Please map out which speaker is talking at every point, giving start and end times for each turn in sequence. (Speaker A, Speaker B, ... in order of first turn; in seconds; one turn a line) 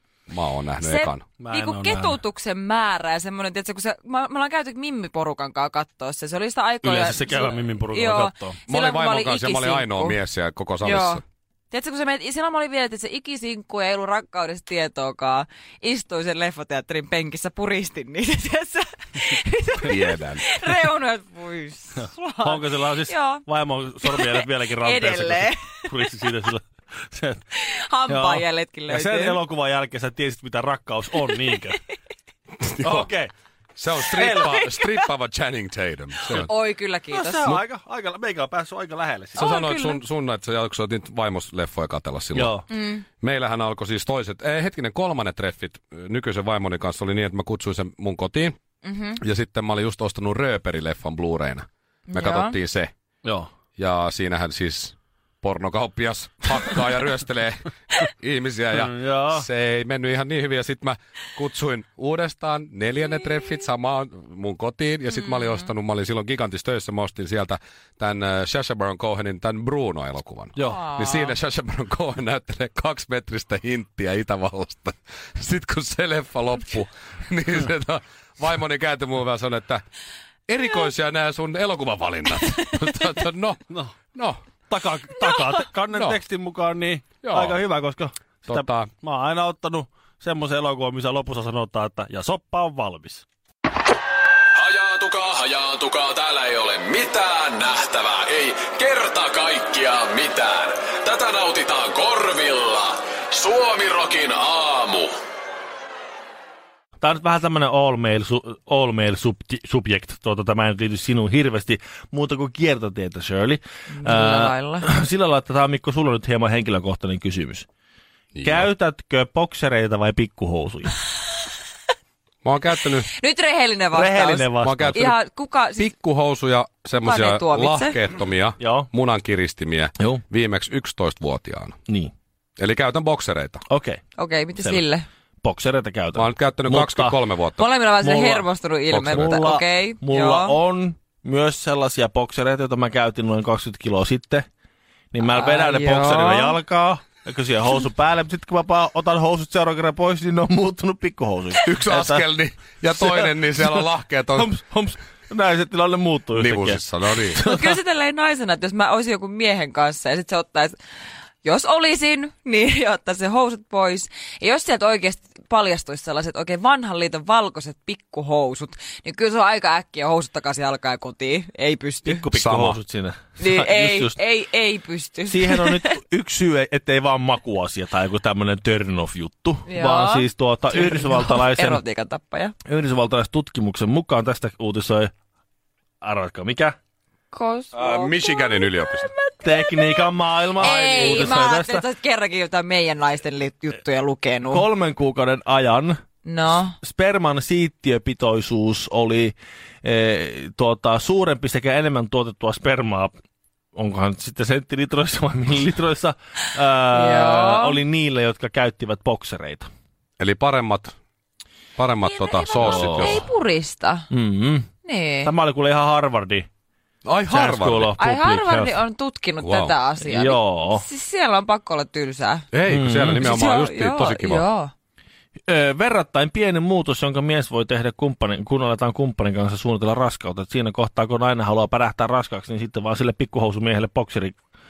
Speaker A: 0.3-1.2
Speaker B: 0.8-10.2
Speaker C: 1.4-2.2
Speaker C: 6.8-8.6
Speaker A: 8.7-11.2
Speaker B: 10.8-23.4
Speaker A: 19.8-20.7
Speaker C: 22.0-27.4
Speaker B: 24.0-25.9
Speaker B: 27.6-29.4
Speaker C: 28.1-31.8
Speaker A: 32.6-33.1
Speaker C: 32.8-33.3
Speaker A: 33.8-36.5
Speaker B: 34.2-35.0
Speaker C: 34.2-34.5
Speaker B: 36.2-37.6
Speaker C: 37.1-39.5
Speaker A: 39.4-42.6
Speaker B: 39.4-40.0
Speaker C: 42.3-42.6
Speaker B: 42.7-43.0
Speaker A: 43.2-48.5
Speaker B: 48.8-49.2
Speaker A: 49.2-52.9
Speaker B: 52.1-52.5
Speaker C: 53.2-53.5
Speaker A: 53.8-79.8
Speaker C: 58.7-59.5
Speaker B: 65.2-65.7
Speaker B: 70.7-71.3
Speaker A: 80.5-84.4
Speaker C: 84.7-93.2
Speaker B: 85.2-85.5
Speaker A: 85.9-86.2
Speaker A: 87.2-87.6
Speaker A: 88.5-88.9
Speaker D: 94.5-105.1
Speaker C: 107.0-117.7
Speaker B: 113.9-114.9
Speaker A: 118.3-118.7
Speaker C: 118.4-121.0
Speaker A: 122.4-123.1
Speaker B: 123.1-125.9
Speaker C: 123.9-125.0
Speaker A: 124.6-125.2
Speaker A: 125.8-131.8
Speaker B: 127.0-128.0
Speaker C: 128.6-128.9
Speaker A: 132.6-133.6
Speaker C: 133.7-134.0
Speaker B: 134.2-135.0
Speaker C: 135.4-137.2
Speaker A: 136.1-137.6
Speaker B: 137.6-140.5
Speaker C: 138.0-144.4
Speaker A: 138.9-139.4
Speaker C: 145.1-152.2
Speaker B: 145.2-146.6
Speaker A: 151.6-154.5
Speaker C: 152.9-157.8
Speaker A: 156.3-157.4
Speaker B: 157.4-160.8
Speaker B: 161.4-172.2
Speaker C: 172.0-174.2
Speaker A: 172.3-172.8
Speaker B: 173.4-175.9
Speaker C: 175.3-181.8
Speaker B: 179.7-182.5
Speaker C: 182.7-185.1
Speaker C: 186.0-186.7
Speaker B: 187.3-194.7
Speaker A: 187.7-189.1
Speaker C: 189.4-191.8
Speaker C: 194.5-196.0
Speaker B: 196.2-196.8
Speaker C: 196.8-203.1
Speaker C: 203.7-209.7
Speaker B: 206.9-207.8
Speaker A: 210.2-210.9
Speaker A: 211.8-213.3
Speaker B: 212.0-214.1
Speaker C: 212.6-213.2
Speaker C: 214.1-214.7
Speaker B: 214.8-215.3
Speaker C: 215.2-216.4
Speaker A: 217.0-217.9
Speaker C: 217.3-218.8
Speaker B: 218.0-222.4
Speaker A: 219.4-219.7
Speaker C: 220.0-220.8
Speaker A: 222.5-224.4
Speaker C: 222.7-223.3
Speaker B: 223.2-224.7
Speaker C: 225.5-234.4